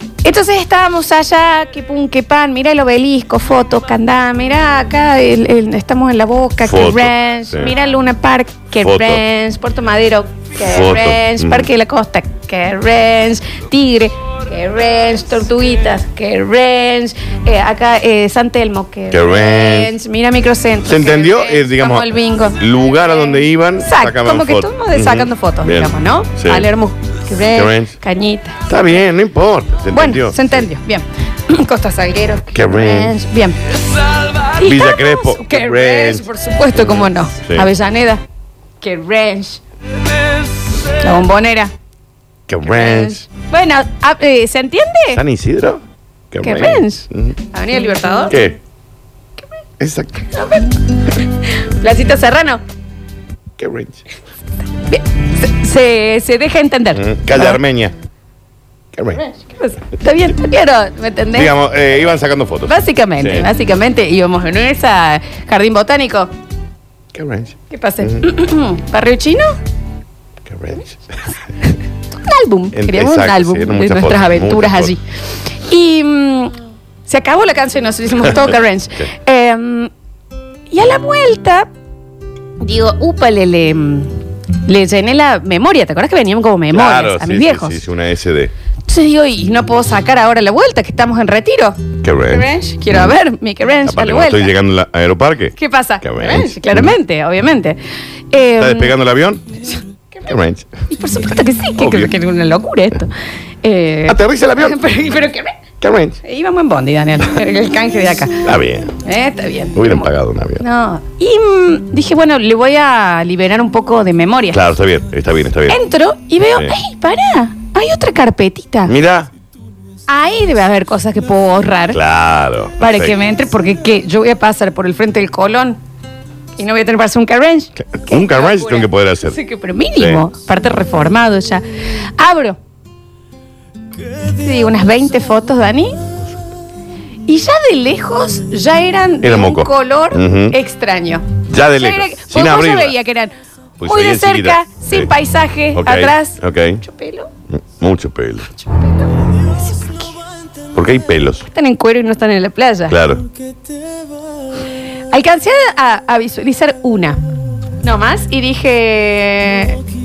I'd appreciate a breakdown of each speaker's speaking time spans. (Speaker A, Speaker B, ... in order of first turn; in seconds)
Speaker A: 0.2-28.6, 29.9-33.6, 34.5-38.2, 38.8-39.6, 41.0-41.7, 42.7-45.2, 46.4-48.4, 50.3-50.7, 51.8-52.6, 54.9-57.6, 59.5-61.5, 62.7-66.3, 67.7-69.5, 72.2-75.0, 75.7-76.5, 77.1-79.9, 80.7-81.7, 82.6-84.1, 84.7-87.8, 88.9-94.5, 95.6-97.8, 98.3-98.9, 100.9-103.1, 103.6-105.5, 106.2-108.4, 109.0-110.1, 110.6-114.6, 115.7-118.9, 120.1-122.0, 122.8-125.8, 126.6-131.6, 132.2-132.6, 134.4-136.0, 137.3-143.3, 143.8-147.3, 148.7-150.1, 151.5-153.0, 155.1-157.2, 157.8-159.8
Speaker B: 6.6-7.7, 8.8-9.2, 10.7-11.7, 19.1-19.9, 20.9-26.7, 27.5-28.0, 28.7-30.7, 32.5-33.1, 34.6-37.7, 42.5-43.3, 45.1-47.4, 48.3-48.6, 49.8-50.2, 53.6-54.0, 56.9-58.0, 58.9-59.2, 61.3-63.5, 67.1-68.3, 70.5-71.0, 72.7-75.0, 86.7-88.5, 92.0-92.5, 93.9-96.9, 98.6-99.5, 100.3-100.7, 101.8-102.1, 104.1-104.8, 105.8-106.2, 108.4-109.0, 109.8-110.6, 114.5-115.8, 118.9-119.3, 121.9-123.2, 127.8-129.4, 130.0-130.2, 139.2-140.6, 141.5-143.0, 143.8-145.1, 145.7-146.8, 147.5-148.5, 150.7-151.5, 152.9-153.3